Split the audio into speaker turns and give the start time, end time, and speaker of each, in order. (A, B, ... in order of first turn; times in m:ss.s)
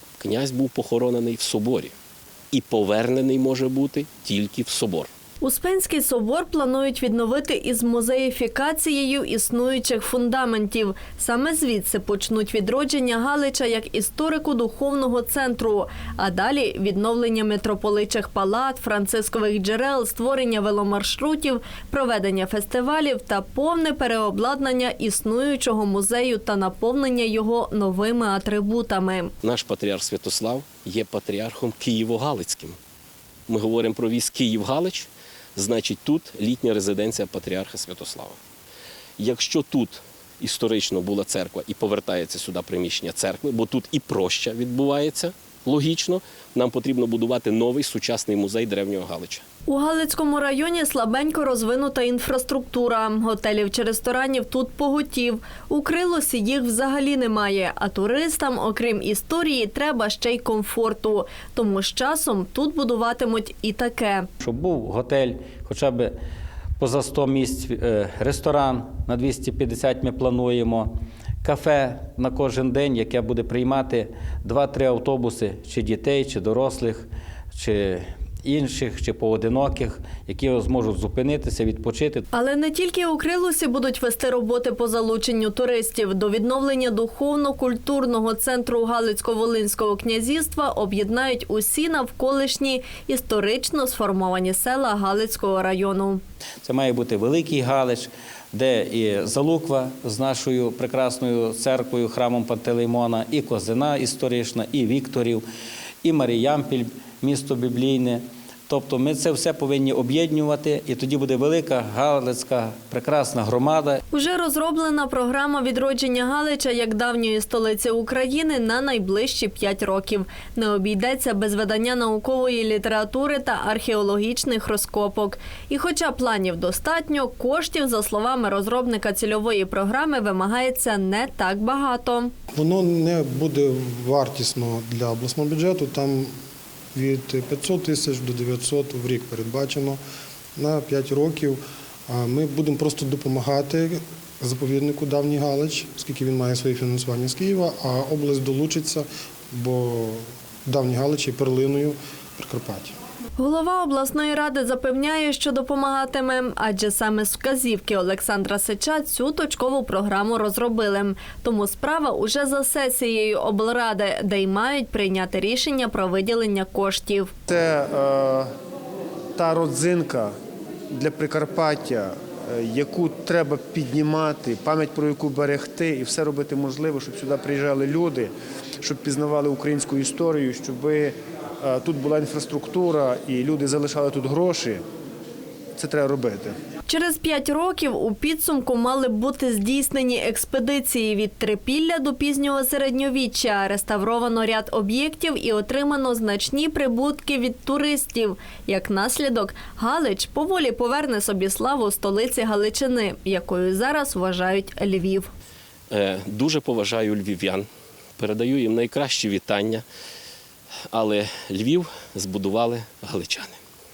0:00.2-0:01.9 A
0:02.5-0:05.1 A
0:05.4-0:29.3 B
0:29.4-0:32.8 A
0:33.5-0:38.4 A
0:39.2-0:49.4 A
0:49.7-1:04.3 B
1:04.4-1:06.1 C
1:06.8-1:10.9 C
1:11.4-1:22.2 C
1:22.3-1:36.2 B
1:36.6-1:45.4 C
1:46.0-1:54.0 C
1:54.1-2:12.3 B
2:12.5-2:16.3 D
2:16.9-2:20.0 D
2:20.6-2:32.9 D
2:33.4-2:47.3 B
2:47.5-2:48.5 E
2:49.4-2:50.3 E
2:50.9-2:58.3 E
2:58.8-3:04.8 E
3:05.8-3:06.5 E
3:06.9-3:25.3 B
3:25.9-3:27.7 A
3:28.2-3:29.8 A
3:30.9-3:33.6 A